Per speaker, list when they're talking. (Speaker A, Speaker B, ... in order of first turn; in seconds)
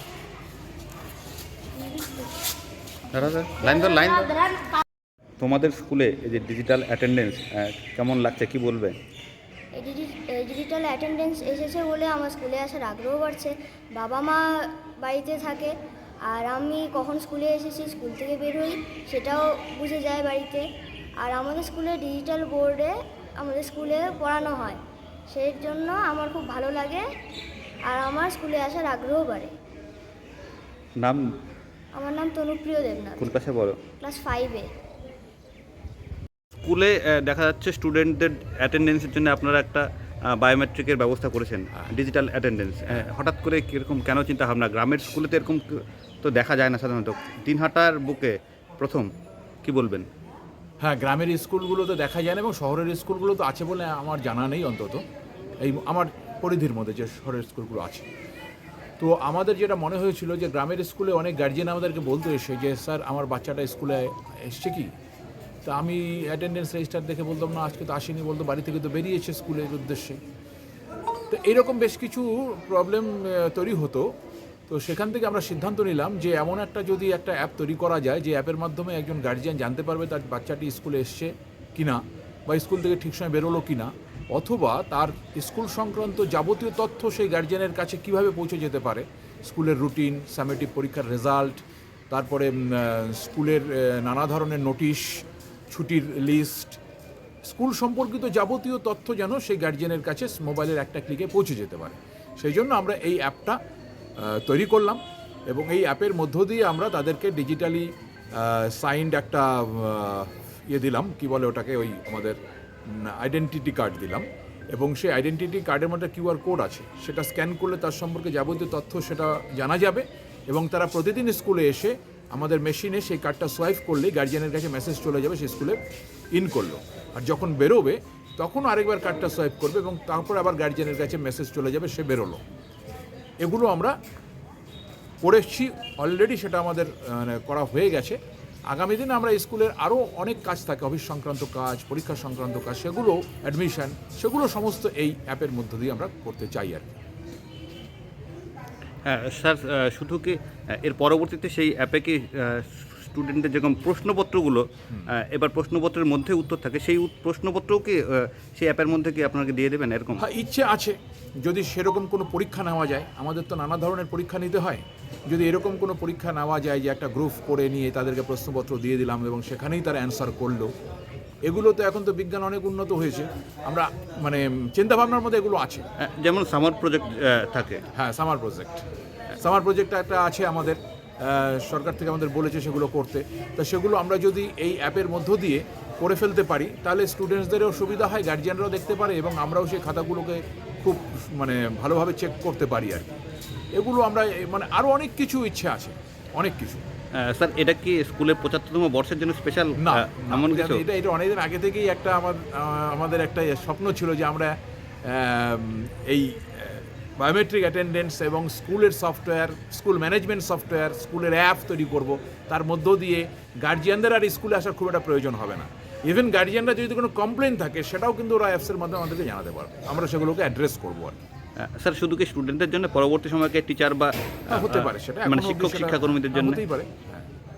Speaker A: 3.1-4.6, 5.4-8.9, 33.2-33.8, 36.6-45.6, 46.2-49.1, 49.6-50.1, 149.1-160.2, 176.0-177.8, 197.2-200.8, 221.6-226.6
Speaker B: 9.8-15.7, 16.3-20.6, 21.2-27.1, 27.9-29.5, 32.0-33.3, 34.0-34.7
Speaker C: 50.8-55.0, 55.6-58.1, 59.0-64.9, 65.7-70.2, 71.3-74.1, 74.7-96.8, 97.4-103.6, 104.2-112.4, 112.9-125.8, 126.3-132.4, 133.4-134.0, 135.2-146.9, 160.2-170.7, 171.4-175.8, 177.9-178.8, 179.4-193.1, 193.8-196.8, 199.8-204.5, 205.1-221.2, 224.5-227.3